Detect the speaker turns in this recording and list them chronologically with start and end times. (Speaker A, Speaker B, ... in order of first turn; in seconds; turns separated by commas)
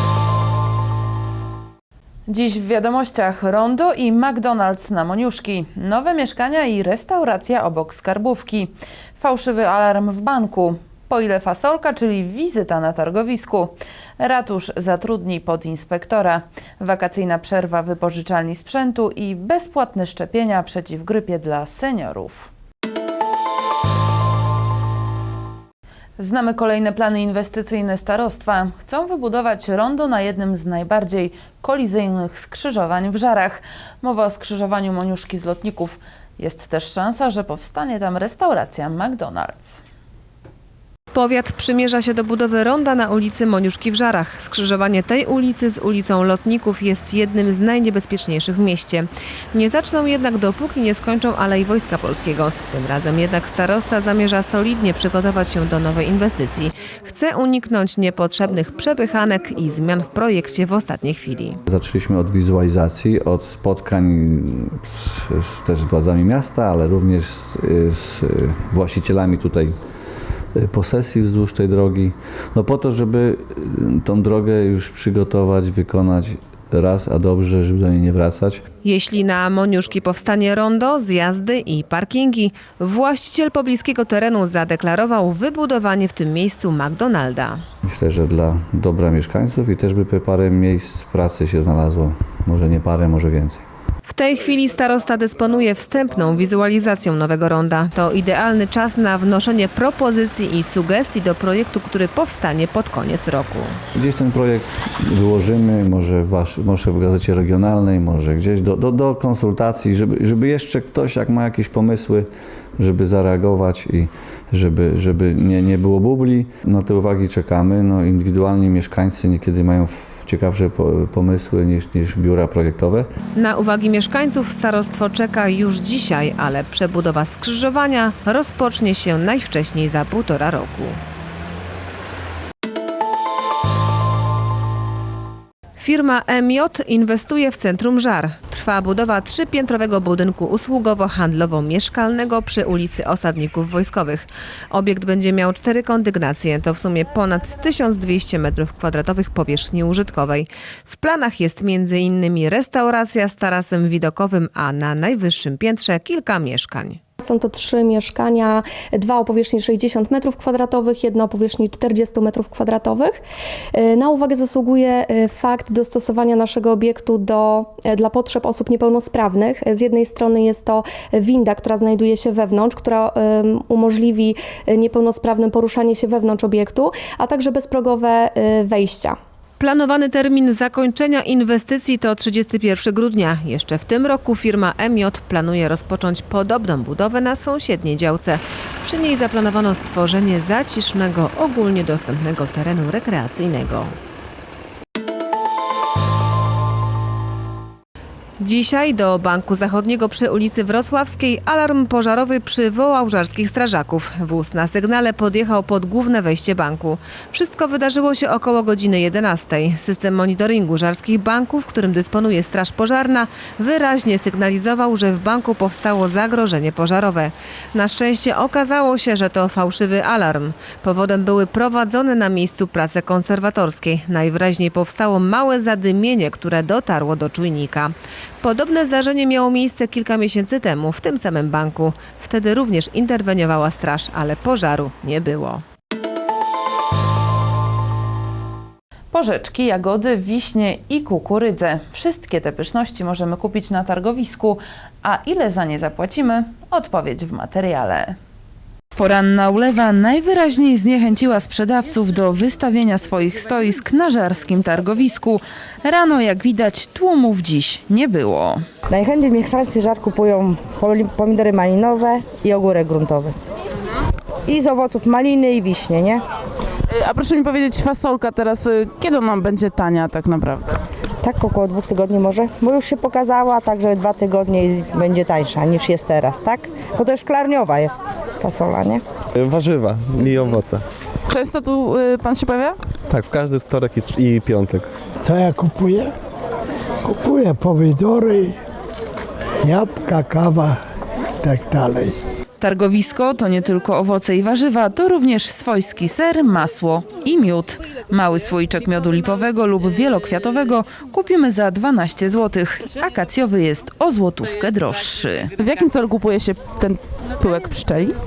Speaker A: 2.3-22.5, Speaker A: 26.2-39.8, Speaker B: 41.1-61.6, Speaker C: 61.7-69.8, Speaker C: 70.5-78.6, Speaker B: 78.8-87.6, Speaker C: 87.9-93.6, Speaker B: 94.1-103.8, Speaker C: 104.0-123.1, Speaker B: 123.3-131.0, Speaker B: 135.8-157.0, Speaker D: 157.2-163.2, Speaker D: 163.8-179.2, Speaker B: 179.6-194.0, Speaker B: 198.4-235.6, Speaker A: 239.1-248.2, Speaker A: 248.9-258.6, Speaker E: 258.9-263.4, Speaker E: 264.5-266.2, Speaker F: 267.0-270.7, Speaker E: 271.2-279.0, Speaker G: 279.4-280.8, Speaker F: 281.3-282.8, Speaker G: 283.1-284.9, Speaker H: 285.2-286.1, Speaker H: 287.0-288.6, Speaker H: 289.6-290.8, Speaker H: 291.4-292.2, Speaker A: 292.6-305.5, Speaker F: 305.6-308.1